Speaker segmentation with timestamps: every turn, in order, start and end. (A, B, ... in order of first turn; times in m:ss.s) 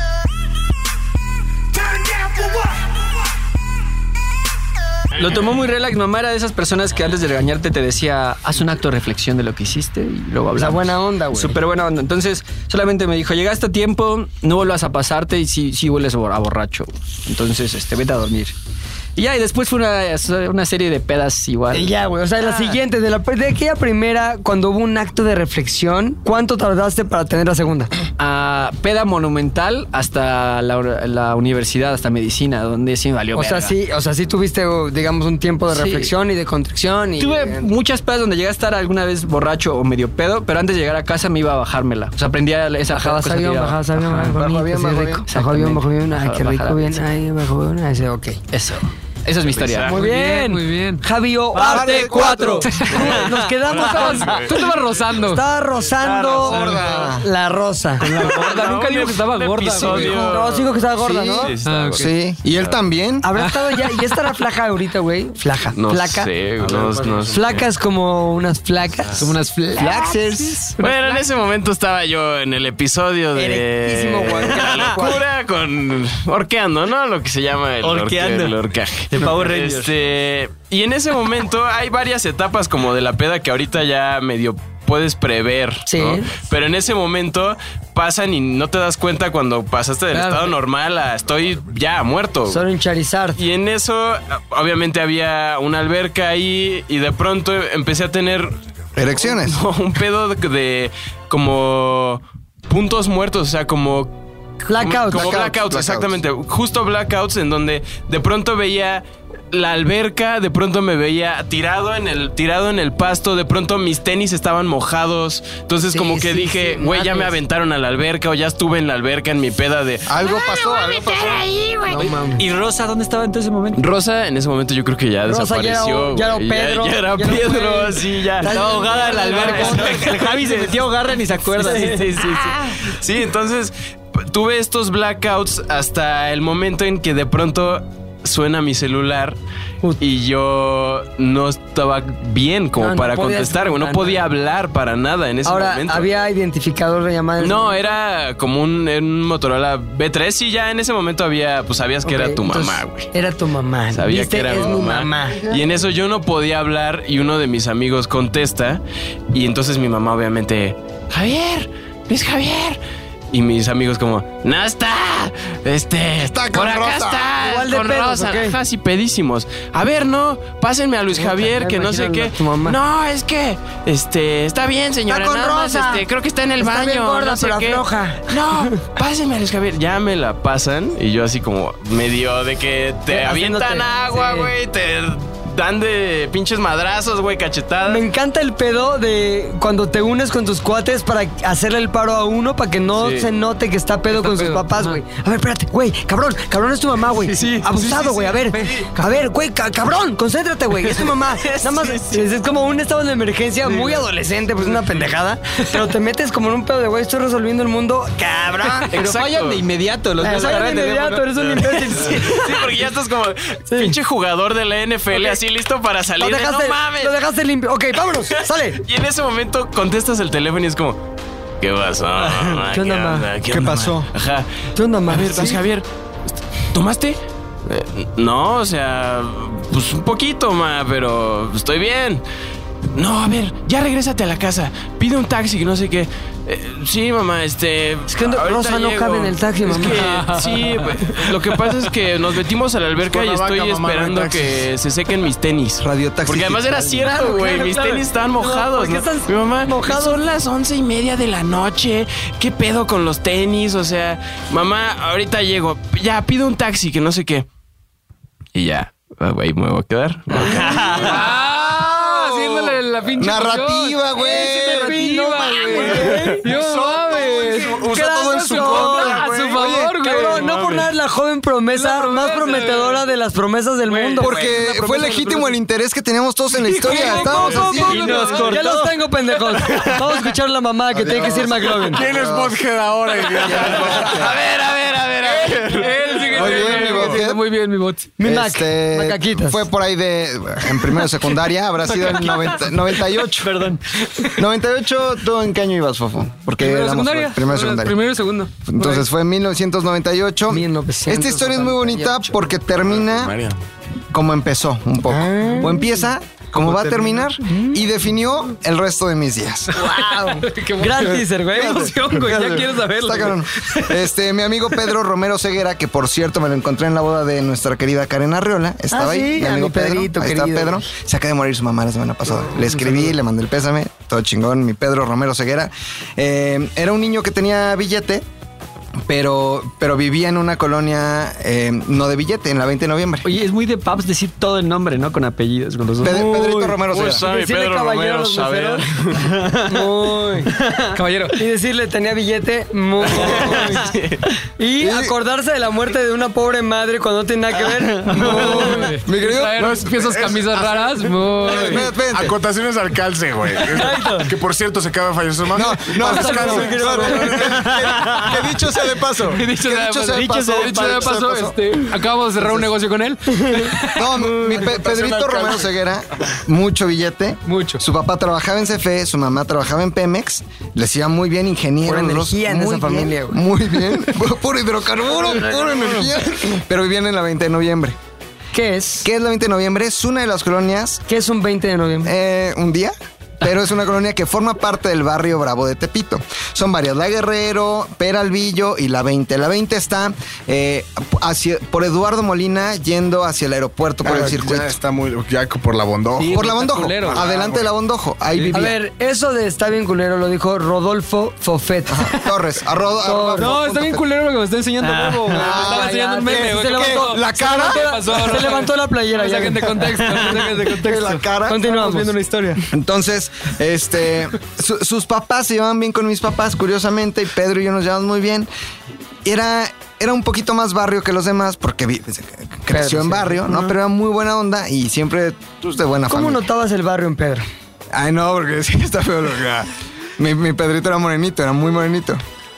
0:05.1-0:18.5 A
0:10.6-0:11.6 B
0:19.2-0:22.8 A
0:21.7-0:27.9 B
0:28.2-0:33.7 A
0:33.3-0:37.7 B
0:35.7-0:36.1 A
0:37.2-0:44.3 A
0:42.9-0:48.4 B
0:44.1-0:45.2 C
0:45.3-0:47.0 A
0:48.5-0:50.0 A
0:49.4-0:50.0 D
0:49.9-0:54.6 B
0:49.9-0:51.0 E
0:51.6-0:52.7 C
0:51.6-0:52.8 A
0:52.9-0:55.1 D
0:53.7-0:55.4 E
0:55.2-0:58.1 B
0:55.9-0:57.0 D
0:56.3-0:57.2 C
0:58.0-1:00.3 E
0:58.0-1:02.8 D
0:59.8-1:01.5 B
1:01.0-1:03.3 C
1:01.6-1:02.1 E
1:03.2-1:06.3 B
1:03.4-1:04.2 E
1:05.7-1:07.6 D
1:07.3-1:10.7 B
1:09.2-1:11.2 E
1:10.8-1:32.6 D
1:13.3-1:15.2 B
1:17.8-1:18.6 A
1:19.1-1:19.9 A
1:25.8-1:26.3 B
1:30.1-1:30.5 B
1:32.5-1:33.4 B
1:33.4-1:38.6 D
1:38.9-1:39.6 C
1:39.1-1:44.1 D
1:44.6-1:45.4 B
1:44.7-2:02.0 D
1:45.1-1:46.2 C
1:55.9-1:57.4 B
2:00.0-2:01.5 C
2:01.9-2:02.4 B
2:02.0-2:03.8 A
2:03.8-2:10.9 D
2:05.2-2:10.4 B
2:08.4-2:12.4 A
2:11.5-2:19.4 D
2:11.5-2:12.0 B
2:20.0-2:26.1 D
2:22.8-2:24.2 B
2:25.4-2:27.8 B
2:27.4-2:33.1 D
2:32.0-2:35.6 B
2:33.9-2:42.8 D
2:43.3-3:08.0 D
2:46.2-2:47.3 C
2:47.3-2:48.6 B
2:51.1-2:52.8 B
2:55.1-2:56.0 B
2:56.6-2:58.8 B
3:03.1-3:04.5 B
3:07.8-3:28.9 B
3:13.0-3:13.3 D
3:14.1-3:15.0 E
3:17.3-3:18.9 E
3:21.7-3:22.2 D
3:23.7-3:24.0 E
3:28.9-3:29.6 D
3:28.9-3:31.9 A
3:30.2-3:32.6 B
3:31.6-3:37.1 D
3:33.7-3:34.0 B
3:35.1-3:35.4 B
3:36.2-3:38.8 B
3:38.8-3:41.0 D
3:41.6-3:44.5 D
3:42.7-3:43.3 B
3:43.5-3:44.1 C
3:44.8-3:45.6 B
3:45.1-3:45.8 D
3:46.7-3:52.2 D
3:52.9-4:17.5 D
3:58.1-4:00.2 B
4:00.0-4:00.9 E
4:03.0-4:04.7 F
4:05.8-4:07.0 C
4:07.0-4:10.2 B
4:18.5-4:21.3 D
4:21.0-4:30.5 E
4:23.2-4:25.0 C
4:24.2-4:26.4 B
4:25.8-4:29.6 F
4:26.0-4:26.4 D
4:27.8-4:34.6 B
4:27.9-4:30.0 C
4:30.2-4:30.9 D
4:31.7-4:33.0 E
4:33.9-4:35.5 E
4:34.2-4:38.1 C
4:36.6-4:38.7 E
4:36.9-4:42.0 B
4:37.9-4:38.9 A
4:38.0-4:38.4 D
4:39.6-4:40.0 D
4:40.9-4:42.6 C
4:41.8-4:44.2 F
4:43.4-4:44.4 C
4:44.0-4:46.9 D
4:45.3-4:48.1 E
4:46.3-4:47.4 C
4:48.2-4:49.6 B
4:48.2-4:53.6 C
4:53.4-4:53.8 A
4:54.4-4:58.0 C
4:56.6-4:59.0 E
4:58.6-5:03.4 C
5:00.5-5:02.3 B
5:02.8-5:03.6 F
5:04.1-5:09.7 C
5:05.1-5:06.0 B
5:06.6-5:07.1 F
5:07.4-5:07.8 B
5:09.7-5:12.6 B
5:09.8-5:13.8 E
5:11.5-5:28.2 C
5:18.9-5:20.8 B
5:29.1-5:33.3 C
5:33.2-5:36.8 A
5:36.0-5:37.2 C
5:36.9-5:39.3 D
5:37.2-5:38.8 B
5:39.6-5:40.6 B
5:40.9-5:41.4 E
5:41.3-5:43.9 B
5:43.1-5:44.2 D
5:44.6-5:48.9 B
5:44.8-5:45.1 C
5:48.1-5:50.4 C
5:48.2-5:51.9 E
5:49.6-5:50.7 F
5:51.4-5:52.4 C
5:51.6-5:59.4 F
5:53.7-5:54.3 B
5:55.5-5:58.7 C
5:56.0-5:58.0 B
5:59.3-6:04.1 E
5:59.4-6:01.6 C
6:00.2-6:01.1 D
6:02.4-6:02.7 C
6:03.3-6:05.7 B
6:03.9-6:18.0 C
6:07.5-6:07.8 E
6:11.8-6:13.4 B
6:15.2-6:15.9 B
6:18.5-6:19.1 B
6:19.0-6:21.0 C
6:21.1-6:22.1 B
6:22.0-6:34.8 C
6:34.0-6:37.7 F
6:36.2-6:37.2 E
6:36.3-6:38.8 C
6:38.5-6:42.1 B
6:41.9-6:44.0 C
6:43.0-6:43.5 B
6:43.3-6:52.6 E
6:44.8-6:45.2 A
6:45.3-6:47.9 C
6:45.3-6:50.6 B
6:50.6-6:51.7 C
6:51.4-6:52.2 B
6:52.7-6:58.5 C
6:59.2-7:06.4 C
7:02.7-7:03.7 B
7:06.1-7:07.4 B
7:07.9-7:12.2 C